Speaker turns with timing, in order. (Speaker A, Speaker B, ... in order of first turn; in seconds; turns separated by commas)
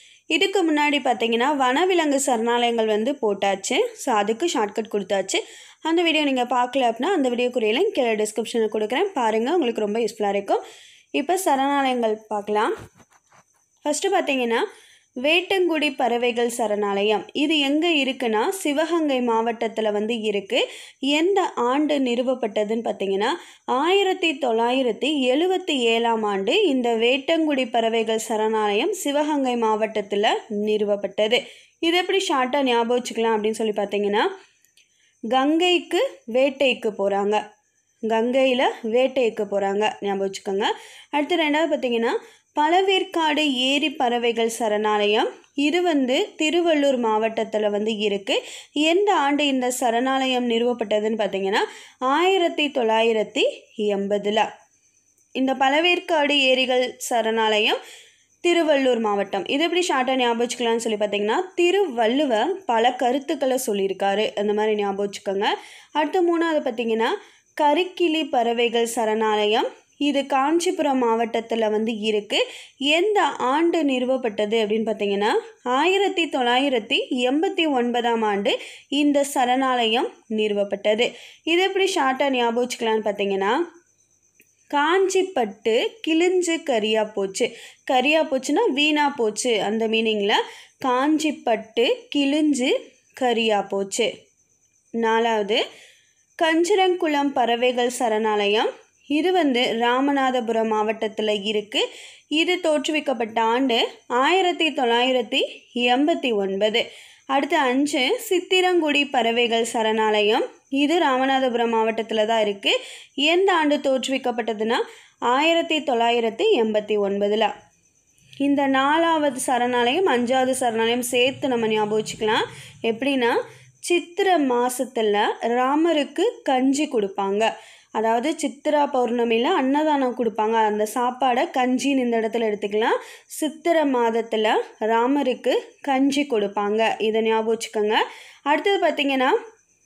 Speaker A: 0.3-10.6, Speaker A: 11.2-12.7, Speaker A: 13.8-14.6, Speaker A: 15.2-34.3, Speaker A: 35.3-37.4, Speaker A: 38.1-54.5, Speaker A: 55.4-57.8, Speaker A: 58.4-83.6, Speaker A: 84.7-94.1, Speaker A: 95.0-95.6, Speaker A: 96.4-101.8, Speaker A: 102.4-117.5, Speaker A: 118.4-123.3, Speaker A: 123.9-139.3